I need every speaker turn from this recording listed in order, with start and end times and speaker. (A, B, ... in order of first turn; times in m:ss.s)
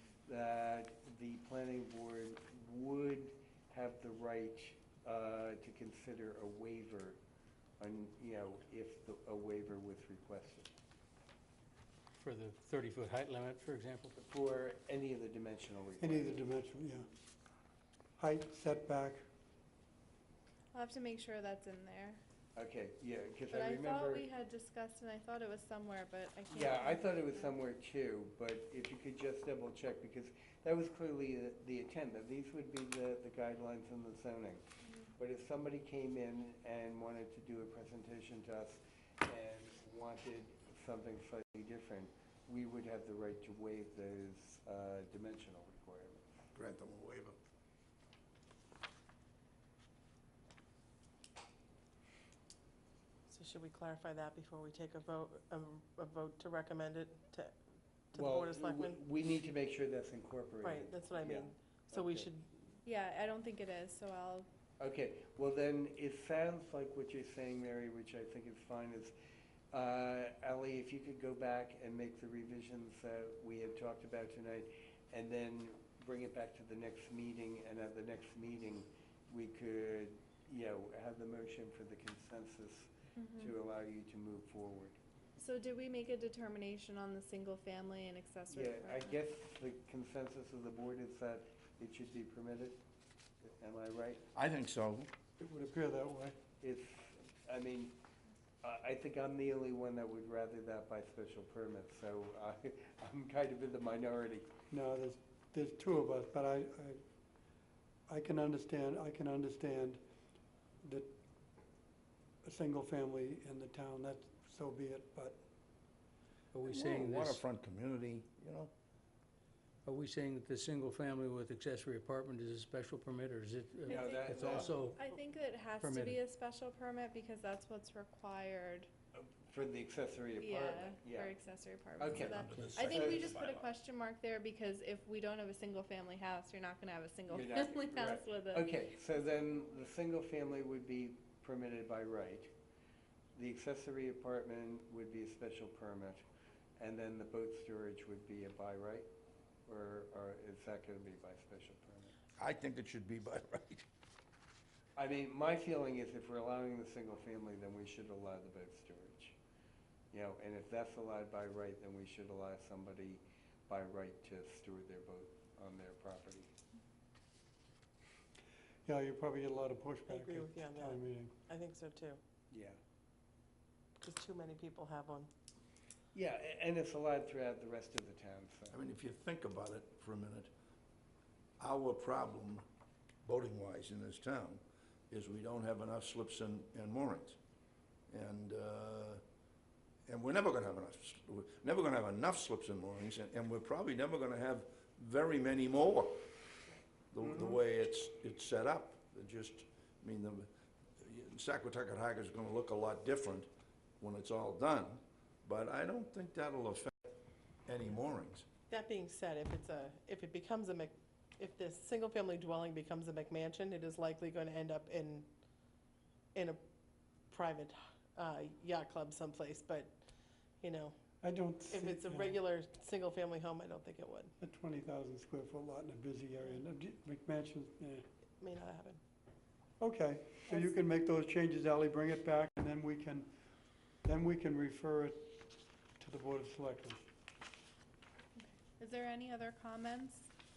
0:00.2-0:07.2 A
0:07.8-0:10.7 A
0:12.2-0:14.0 B
0:12.6-0:13.2 C
0:14.1-0:16.4 A
0:16.0-0:17.0 C
0:18.2-0:19.2 C
0:20.7-0:22.2 D
0:22.6-0:24.2 A
0:23.5-0:27.5 D
0:26.5-0:34.6 A
0:35.2-0:46.3 A
0:46.5-0:47.4 E
0:53.3-0:57.5 F
0:58.1-0:59.0 F
0:58.1-1:02.3 A
1:00.6-1:02.5 F
1:02.8-1:04.5 D
1:04.8-1:09.1 A
1:09.7-1:25.0 A
1:23.2-1:23.5 D
1:25.4-1:29.2 D
1:28.5-1:32.8 A
1:33.4-1:34.2 A
1:34.3-1:35.1 E
1:35.4-1:36.3 C
1:36.6-1:38.0 A
1:38.6-1:44.5 A
1:44.7-1:47.0 C
1:48.1-1:50.0 C
1:50.8-1:51.1 C
1:52.4-1:55.4 C
1:56.6-1:58.7 E
1:56.8-1:57.4 B
1:59.9-2:03.6 B
1:59.9-2:00.8 C
2:03.4-2:05.0 C
2:03.9-2:04.8 A
2:03.9-2:08.9 D
2:05.8-2:06.1 B
2:09.1-2:11.3 A
2:10.4-2:18.7 D
2:12.0-2:13.3 A
2:12.1-2:13.7 E
2:17.3-2:22.5 A
2:23.3-2:26.2 A
2:26.8-2:29.1 A
2:29.6-2:32.1 A
2:32.4-2:33.8 E
2:35.0-2:39.4 A
2:40.1-2:46.5 A
2:48.8-2:51.3 C
2:50.1-2:52.2 F
2:52.5-2:52.8 A
2:54.0-2:55.3 F
2:56.1-2:58.8 A
2:58.7-3:00.5 E
3:01.6-3:02.6 E
3:03.2-3:07.4 E
3:08.1-3:09.2 E
3:10.1-3:16.3 E
3:17.1-3:23.5 E
3:17.2-3:17.6 A
3:24.0-3:27.1 E
3:27.7-3:28.4 E
3:28.7-3:35.3 F
3:36.3-3:36.6 F
3:37.3-3:40.0 F
3:40.6-3:40.9 F
3:41.2-3:42.0 C
3:41.7-3:44.3 F
3:44.4-3:48.0 C
3:48.4-3:49.0 F
3:49.8-3:53.3 C
3:50.5-3:50.8 F
3:54.0-3:55.2 C
3:56.0-3:57.0 C
3:58.4-4:00.3 D